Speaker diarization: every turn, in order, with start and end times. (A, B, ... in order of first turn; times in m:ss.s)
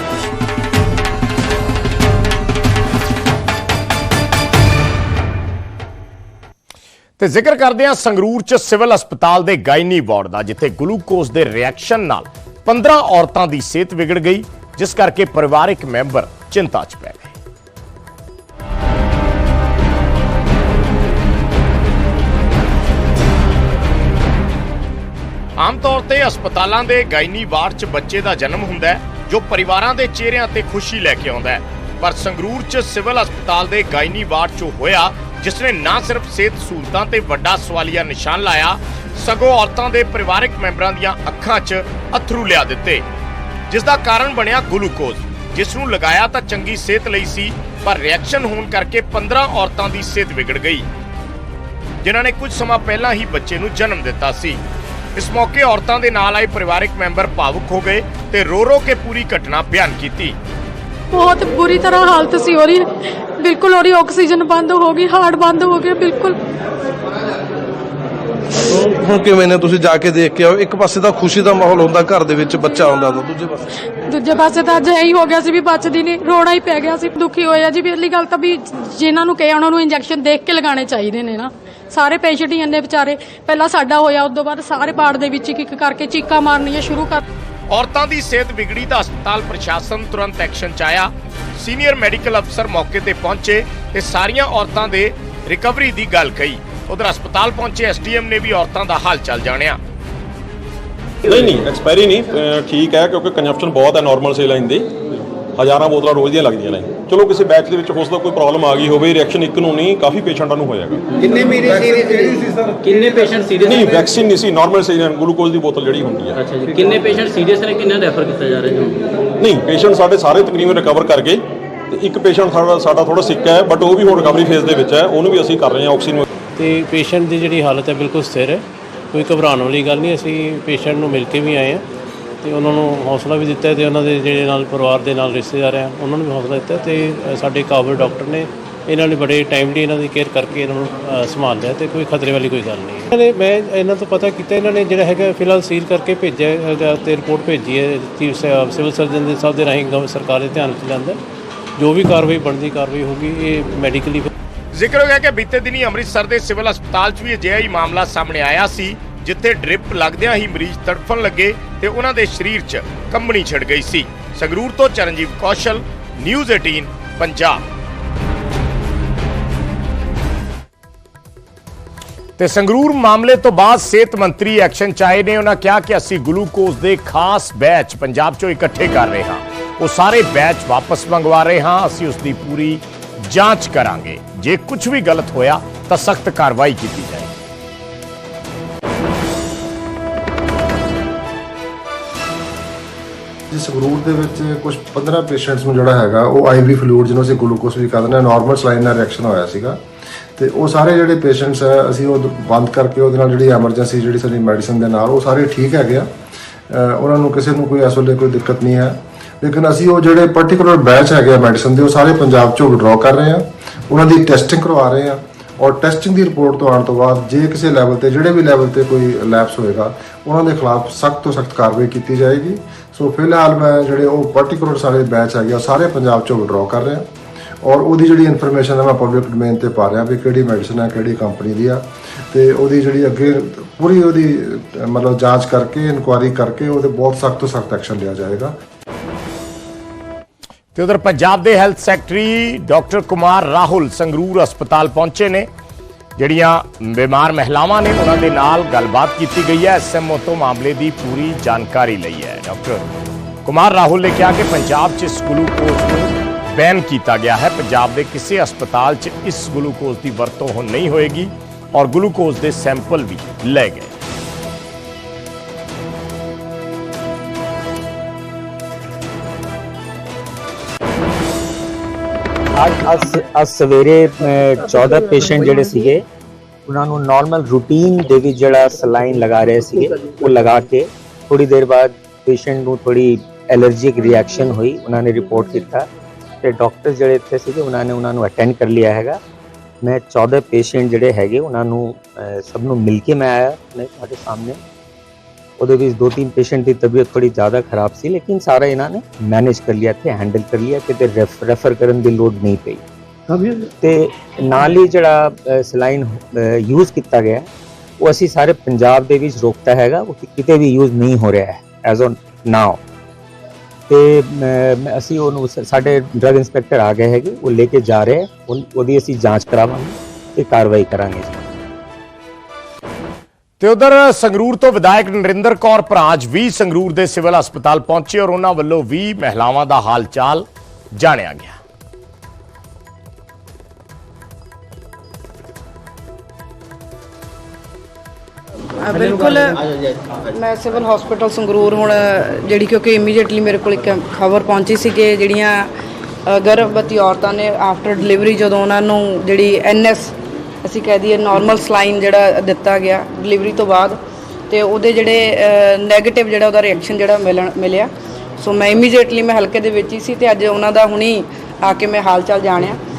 0:07.2-0:17.3 A
0:25.6-0:43.0 A
0:43.7-0:50.8 A
0:52.0-0:54.6 A
0:55.2-1:00.4 A
1:01.1-1:06.4 B
1:08.7-1:13.4 C
1:14.1-1:27.2 B
1:27.7-1:39.8 A
1:41.2-1:44.9 D
1:45.6-1:51.3 D
1:53.6-1:56.4 D
1:56.7-1:58.9 E
1:59.4-2:06.2 D
2:06.6-2:08.6 F
2:09.1-2:11.8 F
2:12.4-2:31.2 F
2:31.8-2:34.3 F
2:34.7-2:47.6 A
2:52.4-3:07.4 A
3:13.5-3:19.8 G
3:20.4-3:26.1 G
3:26.7-3:47.1 G
3:47.6-3:58.5 G
4:00.7-4:05.5 A
4:06.2-4:12.8 A
4:13.4-4:23.9 A
4:32.6-4:36.0 H
4:36.6-4:45.8 H
4:46.4-4:49.2 H
4:49.8-4:54.6 H
4:55.6-5:02.8 H
5:03.8-5:07.5 H
5:08.0-5:12.8 H
5:13.9-5:21.3 H
5:23.6-5:31.6 A
5:38.8-5:39.6 I
5:40.3-5:45.6 I
5:46.3-6:02.8 I